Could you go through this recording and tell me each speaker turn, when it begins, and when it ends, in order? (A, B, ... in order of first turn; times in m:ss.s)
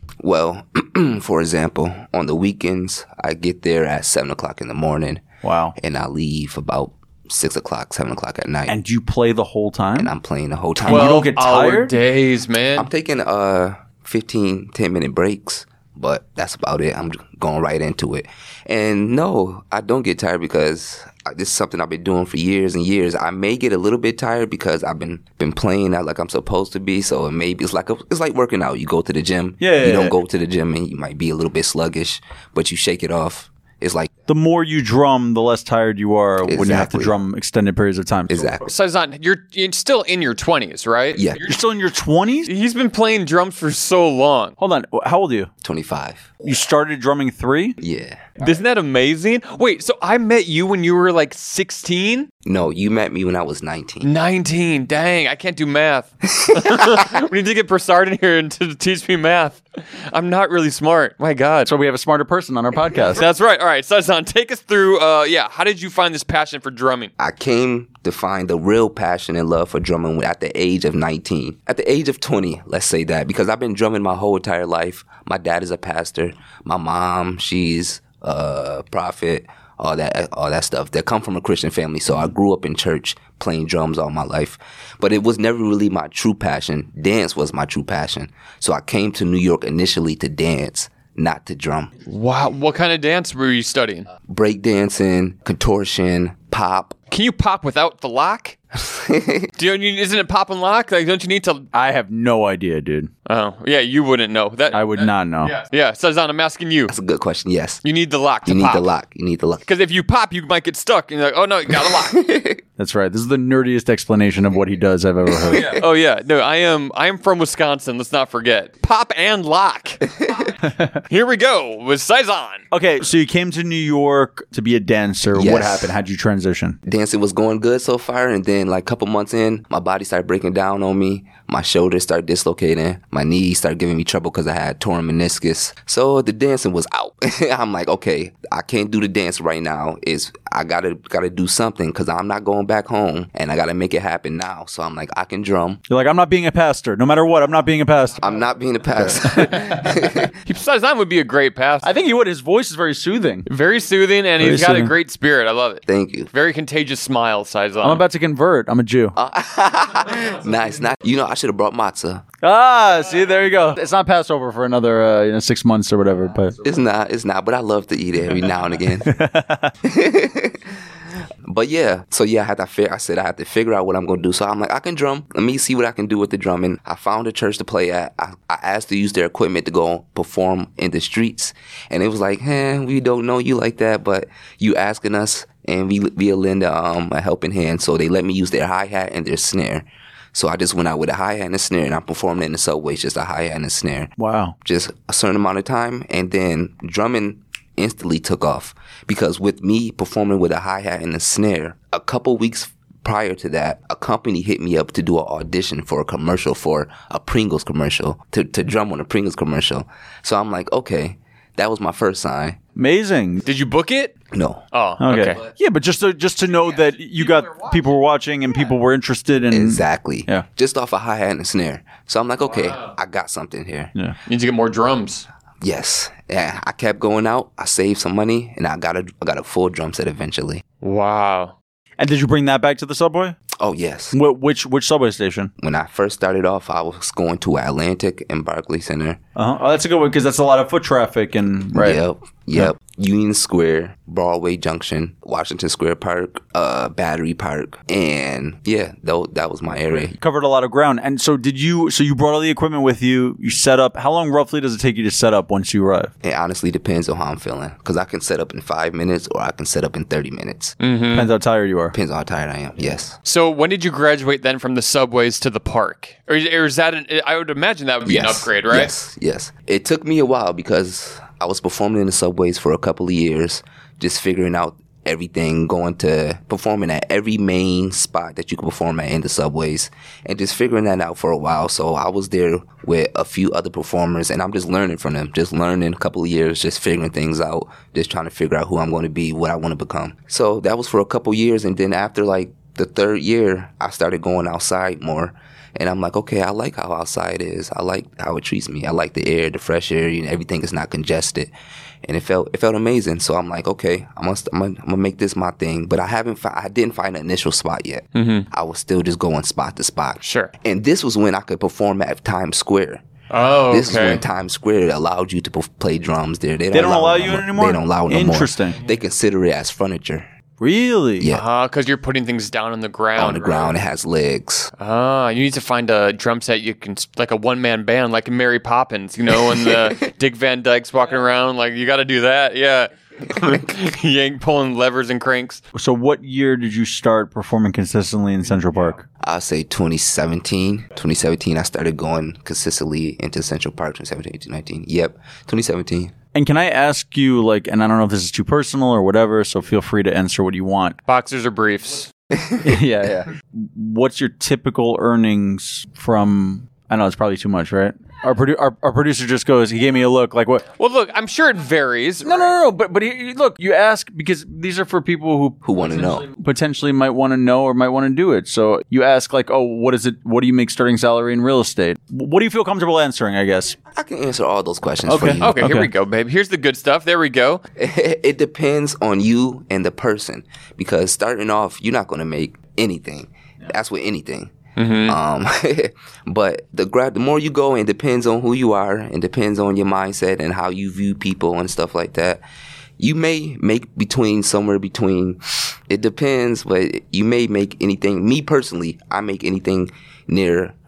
0:00.2-0:05.2 A
0:05.4-0:05.7 B
0:05.8-0:08.8 A
0:08.7-0:10.1 B
0:10.0-0:11.2 A
0:10.8-0:12.0 B
0:10.9-0:12.9 C
0:12.8-0:34.1 A
0:29.6-0:30.2 B
0:34.3-0:38.6 B
0:36.4-0:37.1 A
0:38.3-0:38.7 A
0:38.6-0:41.4 C
0:41.1-0:41.4 A
0:41.4-0:42.5 B
0:42.4-0:44.5 C
0:44.6-0:45.5 B
0:45.6-0:46.3 A
0:46.4-0:47.8 B
0:47.8-0:48.3 A
0:48.4-0:52.3 C
0:52.4-0:54.1 A
0:54.0-1:01.7 C
0:56.4-0:57.0 A
1:01.6-1:03.2 B
1:03.1-1:07.1 C
1:07.2-1:31.9 A
1:32.0-1:34.1 C
1:34.3-1:37.0 A
1:37.1-1:38.6 C
1:38.7-1:39.5 A
1:39.6-1:41.7 C
1:41.7-1:43.1 B
1:43.2-1:46.9 C
1:44.7-1:45.5 B
1:46.9-1:47.8 A
1:47.8-1:48.9 C
1:48.4-1:49.6 A
1:49.6-1:52.2 C
1:51.8-1:52.6 A
1:52.8-1:55.6 B
1:55.5-2:00.1 C
2:00.6-2:01.0 B
2:01.0-2:02.6 C
2:02.7-2:06.8 B
2:05.3-2:05.9 A
2:06.8-2:25.8 A
2:25.9-2:28.2 B
2:28.2-2:30.3 A
2:29.0-2:29.5 B
2:30.4-2:31.9 C
2:31.8-2:33.4 B
2:33.5-2:38.0 C
2:34.4-2:34.9 B
2:35.9-2:36.3 A
2:37.8-2:39.2 B
2:39.1-2:42.2 A
2:42.4-2:46.6 B
2:46.6-2:49.1 A
2:49.0-2:49.7 B
2:49.8-2:50.8 A
2:51.4-3:14.1 A
3:14.2-3:14.5 B
3:14.6-3:32.6 A
3:32.8-3:33.4 B
3:33.4-3:34.1 C
3:34.3-3:34.6 A
3:34.7-3:35.4 C
3:35.0-3:40.4 B
3:36.7-3:37.9 C
3:39.5-3:43.9 A
3:42.4-3:42.9 C
3:44.2-3:45.3 C
3:45.6-3:50.6 A
3:50.8-3:51.5 C
3:52.0-3:53.4 B
3:53.6-3:54.2 A
3:54.1-3:55.5 B
3:55.6-3:59.2 A
3:59.4-4:02.0 B
4:01.7-4:10.1 A
4:09.9-4:16.1 B
4:16.2-4:20.8 A
4:20.8-4:21.3 C
4:21.1-4:21.9 B
4:21.9-4:23.2 A
4:23.2-4:28.9 C
4:28.0-5:01.5 A
5:02.0-5:13.0 A
5:08.1-5:08.5 C
5:10.2-5:10.5 C
5:13.3-5:14.2 C
5:13.7-5:20.3 A
5:16.7-5:18.8 B
5:20.6-5:21.3 B
5:21.2-5:21.4 A
5:21.3-5:23.7 C
5:23.2-5:24.7 A
5:24.8-5:35.6 C
5:29.5-5:29.9 A
5:35.7-5:39.0 B
5:39.2-5:46.1 A
5:46.3-5:51.0 B
5:51.0-5:52.1 C
5:52.6-6:00.7 B
6:00.8-6:02.5 C
6:02.2-6:13.8 B
6:05.6-6:06.2 A
6:13.9-6:15.6 A
6:15.0-6:15.9 B
6:15.4-6:17.6 C
6:17.8-6:24.5 A
6:24.8-6:25.2 C
6:25.0-6:32.4 A
6:33.0-6:40.7 A